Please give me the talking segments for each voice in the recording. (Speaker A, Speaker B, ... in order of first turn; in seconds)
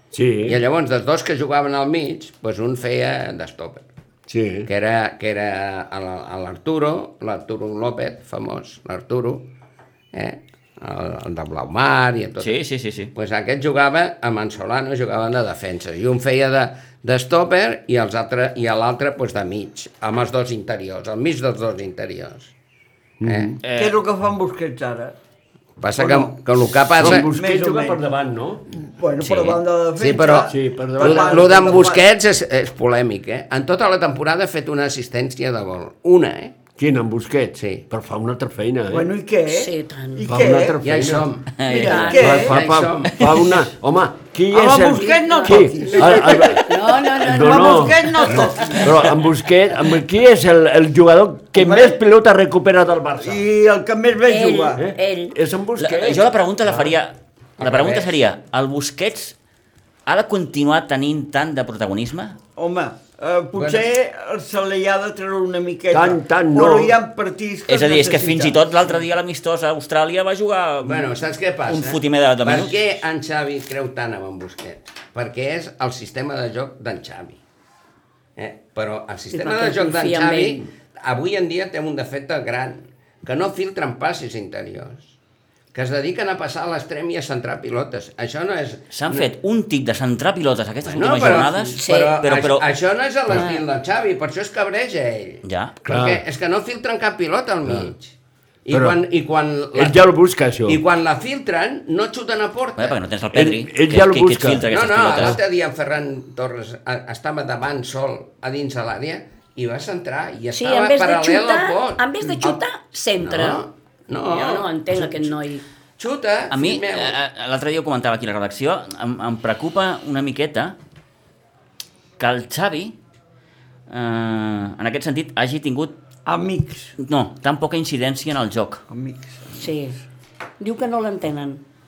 Speaker A: 0.1-0.6, 4.3-4.7, 23.2-23.6, 26.8-28.7, 30.5-31.9, 36.8-39.1, 40.3-41.3, 42.0-53.4, 54.8-56.9, 65.9-66.9, 95.8-96.2, 97.6-97.9, 98.7-99.0, 99.7-100.8, 103.3-105.3
Speaker B: 0.5-3.9, 4.7-9.5, 10.1-12.6, 13.1-22.5, 23.2-23.6, 25.8-27.3, 30.0-36.5, 37.6-37.8, 40.8-41.7, 42.2-43.4, 57.6-58.1, 63.5-63.8, 70.8-77.4, 78.4-85.1, 85.7-89.3, 90.9-98.1, 98.7-100.0, 100.7-103.0, 104.7-112.6, 113.2-115.3, 116.0-117.2
Speaker C: 12.4-13.1, 23.6-24.0, 29.2-29.6, 41.6-42.2, 55.8-59.3, 60.0-62.4, 67.7-72.8, 88.9-92.6, 95.4-95.7, 102.8-105.4, 116.5-120.8, 122.2-122.9, 123.9-125.9, 127.0-128.8
Speaker D: 23.7-25.1, 26.0-26.4, 27.1-28.0, 28.7-32.0, 38.9-40.8, 41.6-42.6, 44.5-48.9, 51.5-52.0, 53.2-54.8, 62.6-68.7, 126.2-126.9, 128.9-129.5
Speaker E: 39.5-40.3, 41.9-42.3, 45.1-48.9, 54.2-55.4, 79.3-80.6, 91.7-92.2, 93.3-93.6, 110.5-113.6, 114.3-115.6, 129.6-130.0, 130.6-131.6